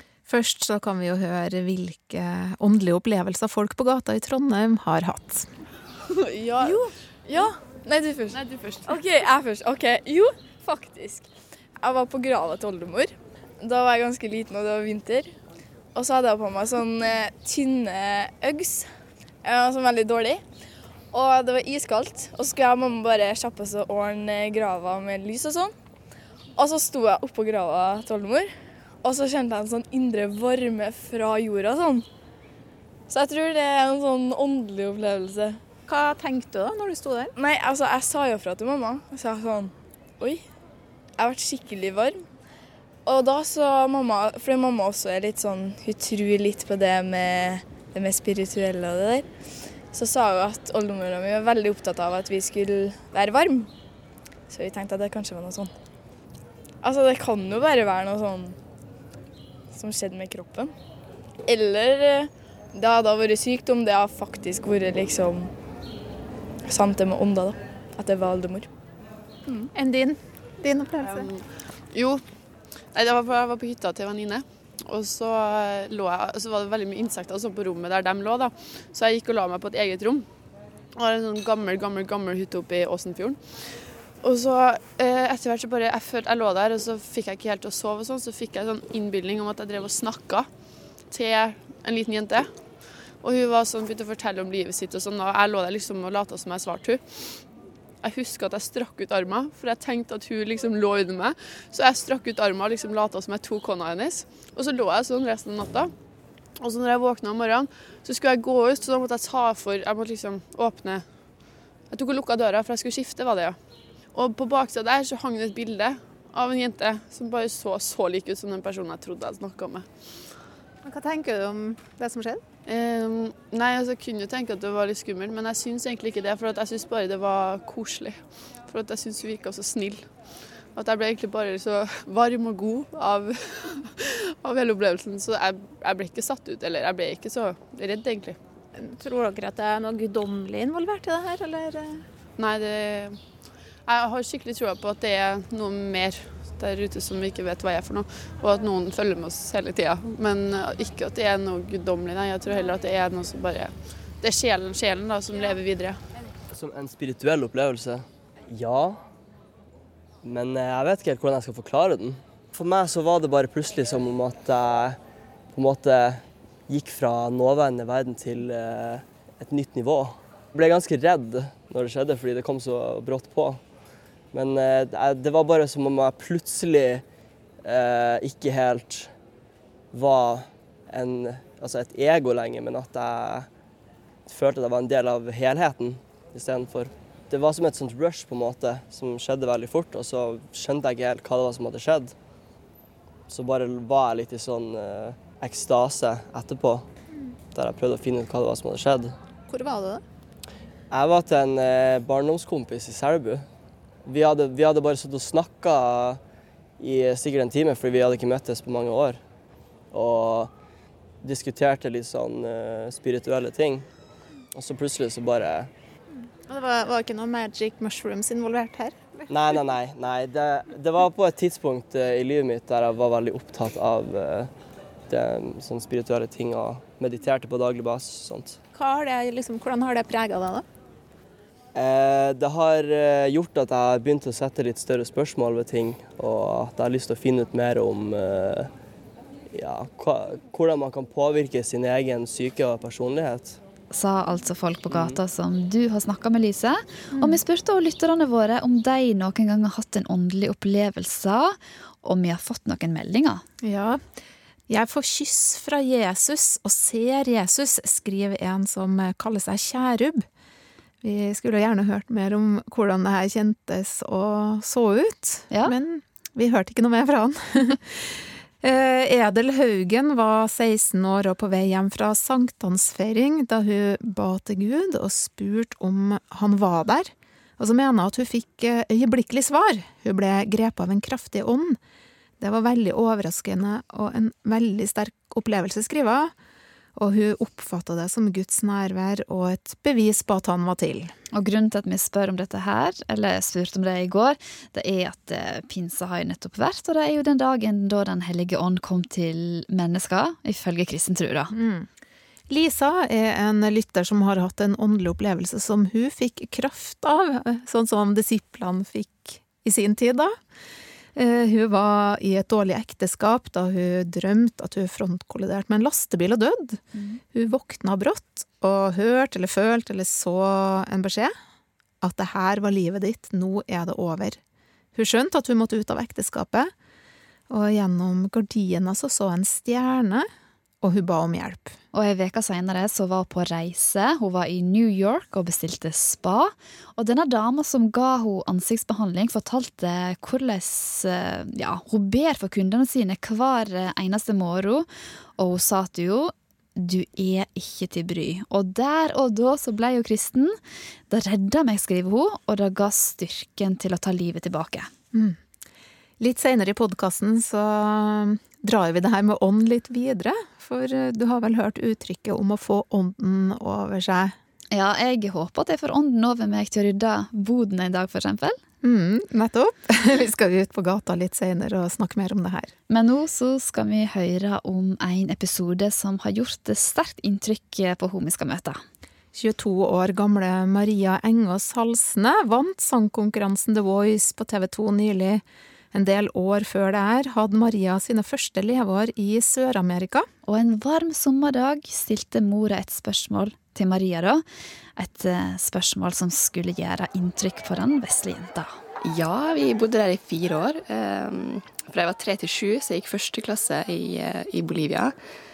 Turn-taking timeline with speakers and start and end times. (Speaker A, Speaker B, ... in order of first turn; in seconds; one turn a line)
Speaker A: 0.3-5.5
Speaker B: 6.2-6.8
Speaker C: 6.6-15.3
Speaker B: 8.3-8.9
Speaker C: 15.9-20.4
Speaker C: 21.1-25.8
Speaker C: 26.6-32.1
Speaker C: 33.1-35.6
Speaker A: 35.9-37.3
Speaker C: 37.4-40.4
Speaker C: 41.2-42.2
Speaker C: 43.1-49.3
Speaker C: 49.9-53.7
Speaker C: 54.5-55.7
Speaker C: 56.8-58.6
Speaker C: 59.7-60.7
Speaker C: 61.5-65.5
Speaker C: 66.7-68.7
Speaker A: 69.7-71.3
Speaker B: 71.0-72.3
Speaker B: 72.9-80.3
Speaker B: 81.0-90.5
Speaker B: 91.1-92.7
Speaker B: 93.2-97.5
Speaker B: 98.0-105.9
Speaker B: 106.6-111.1
Speaker B: 111.9-113.6
Speaker B: 114.1-120.3
Speaker A: 120.8-122.4
Speaker B: 122.7-138.4
Speaker A: 138.8-142.1
Speaker B: 142.4-143.2
Speaker B: 143.8-156.0
Speaker D: 156.5-159.0
Speaker D: 160.2-165.0
Speaker D: 165.5-173.6
Speaker D: 174.3-177.0
Speaker D: 177.6-179.1
Speaker D: 179.9-183.5
Speaker D: 184.3-192.2
Speaker D: 193.3-196.9
Speaker D: 197.5-199.2
Speaker A: 199.5-200.0
Speaker D: 200.9-203.5
Speaker D: 204.1-206.2
Speaker D: 206.8-209.2
Speaker D: 209.9-210.5
Speaker D: 211.2-213.9
Speaker D: 214.5-215.7
Speaker A: 216.4-219.3
Speaker D: 219.3-224.5
Speaker D: 225.1-228.6
Speaker A: 228.7-230.7
Speaker D: 231.8-238.7
Speaker D: 239.5-243.6
Speaker E: 243.9-253.4
Speaker D: 244.9-245.2
Speaker A: 247.1-247.4
Speaker A: 253.6-254.1
Speaker A: 254.7-260.3
Speaker A: 261.0-281.8
Speaker A: 282.4-286.3
Speaker A: 286.9-291.1
Speaker E: 291.3-301.5
Speaker A: 301.5-301.9
Speaker A: 302.5-310.4
Speaker A: 311.1-321.3
Speaker E: 316.9-317.2
Speaker A: 322.0-324.4
Speaker A: 324.9-326.7
Speaker A: 327.5-330.3
Speaker A: 330.8-331.7
Speaker E: 331.9-350.6
Speaker E: 351.1-354.9
Speaker A: 355.1-355.4
Speaker A: 356.2-364.4
Speaker E: 364.7-368.6
Speaker A: 368.8-372.7
Speaker E: 372.9-378.8
Speaker A: 379.3-390.3
Speaker E: 390.5-394.4
Speaker E: 395.0-398.7
Speaker F: 399.0-405.1